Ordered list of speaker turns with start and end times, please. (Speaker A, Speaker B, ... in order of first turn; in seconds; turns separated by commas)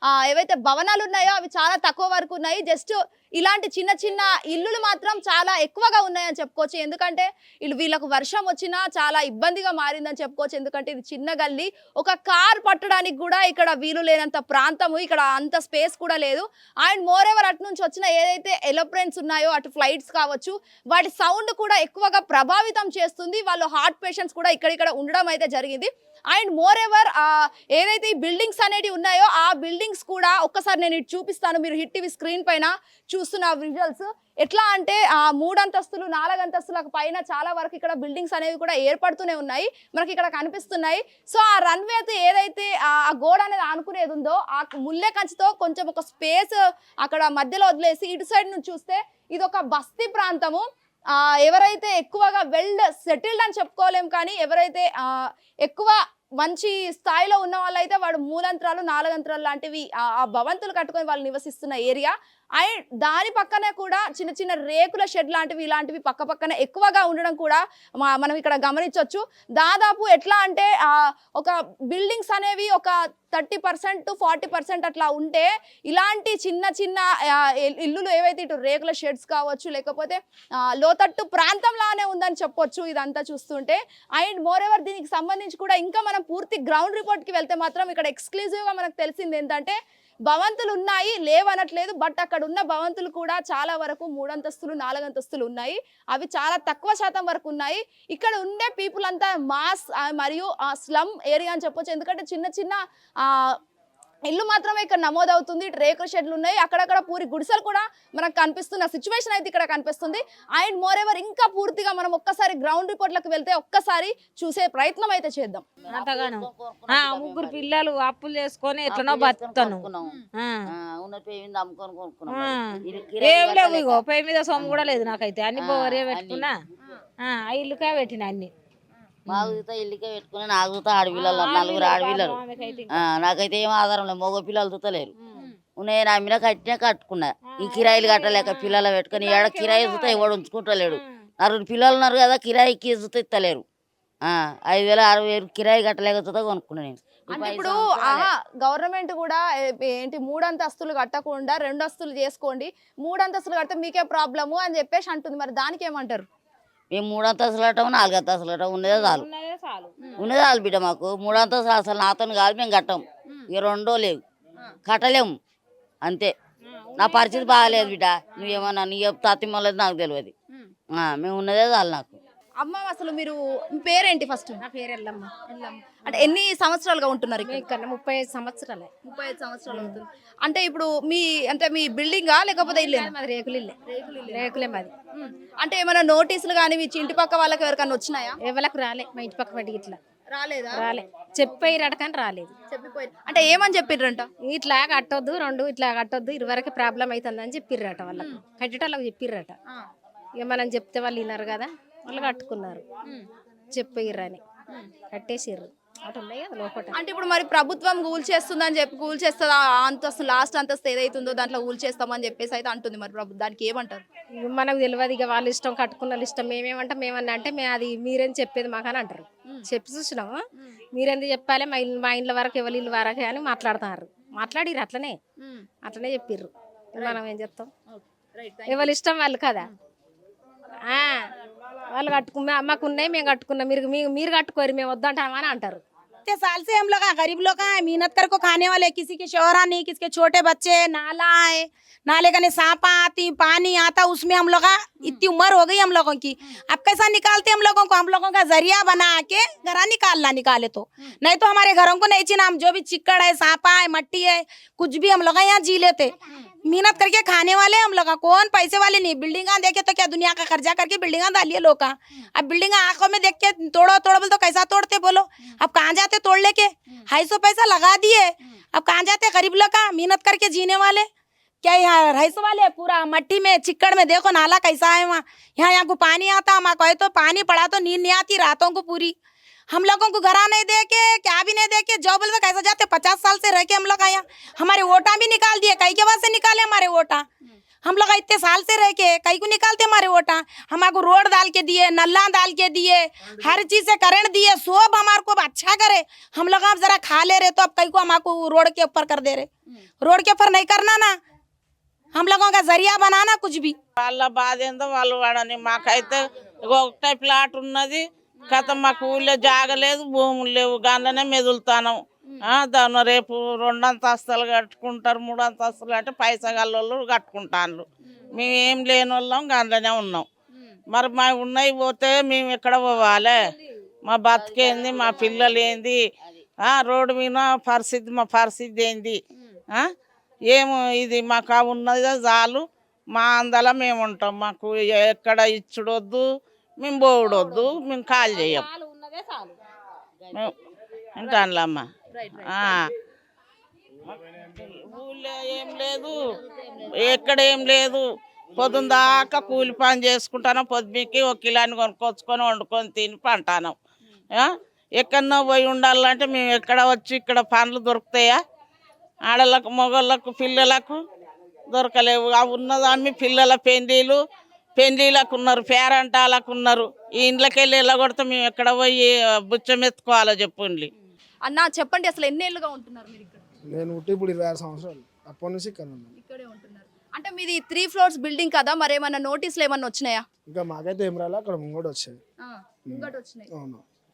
Speaker A: 0.2-50.6, Speaker A: 51.4-54.9, Speaker A: 55.6-80.2, Speaker A: 80.8-89.8, Speaker A: 90.3-103.5, Speaker A: 104.3-115.6, Speaker B: 115.9-117.7, Speaker C: 116.0-120.5, Speaker B: 118.9-124.0, Speaker C: 122.3-126.5, Speaker B: 124.5-124.8, Speaker B: 125.5-126.5, Speaker C: 127.2-128.5, Speaker B: 129.3-135.1, Speaker C: 131.1-132.9, Speaker B: 135.8-143.6, Speaker C: 137.5-140.3, Speaker B: 144.2-148.3, Speaker A: 147.3-156.2, Speaker B: 156.9-159.2, Speaker C: 158.9-159.9, Speaker B: 160.2-164.2, Speaker B: 164.8-165.3, Speaker B: 166.0-166.3, Speaker C: 166.8-168.6, Speaker B: 166.9-170.3, Speaker B: 170.9-172.2, Speaker A: 172.6-174.6, Speaker D: 174.6-175.3, Speaker A: 175.5-177.6, Speaker D: 177.4-178.9, Speaker A: 179.0-183.1, Speaker D: 179.7-180.0, Speaker D: 182.6-183.7, Speaker A: 183.9-184.5, Speaker D: 184.3-184.9, Speaker A: 185.2-188.4, Speaker D: 188.4-190.0, Speaker A: 190.3-190.9, Speaker D: 190.7-192.5, Speaker A: 191.4-191.8, Speaker A: 192.7-194.3, Speaker D: 194.4-199.6, Speaker D: 200.4-202.8, Speaker D: 203.7-204.4, Speaker D: 205.1-207.0, Speaker A: 206.9-214.0, Speaker D: 214.4-220.4, Speaker D: 220.9-225.2, Speaker A: 225.4-225.7, Speaker D: 225.8-227.7, Speaker A: 227.9-228.9, Speaker D: 228.7-229.7, Speaker D: 230.9-231.3, Speaker D: 231.9-235.8, Speaker E: 236.3-256.1, Speaker E: 256.6-271.1, Speaker E: 271.6-279.1, Speaker E: 279.7-287.2, Speaker E: 287.8-299.5, Speaker E: 300.0-301.1, Speaker E: 302.1-303.8, Speaker F: 304.0-320.3, Speaker F: 320.9-323.4, Speaker F: 324.1-326.0, Speaker B: 324.3-326.3, Speaker F: 326.6-329.2, Speaker F: 330.5-336.2, Speaker F: 336.8-338.7, Speaker C: 337.2-337.5, Speaker C: 338.5-339.5, Speaker F: 341.2-342.9, Speaker F: 344.4-346.2, Speaker F: 346.9-348.0, Speaker F: 348.6-353.8, Speaker F: 354.4-358.4, Speaker F: 359.3-361.0, Speaker F: 361.7-364.2, Speaker F: 364.8-370.9, Speaker A: 371.4-373.4, Speaker G: 373.7-376.1, Speaker A: 376.1-380.2, Speaker G: 380.5-382.2, Speaker A: 382.4-383.5, Speaker G: 382.9-383.8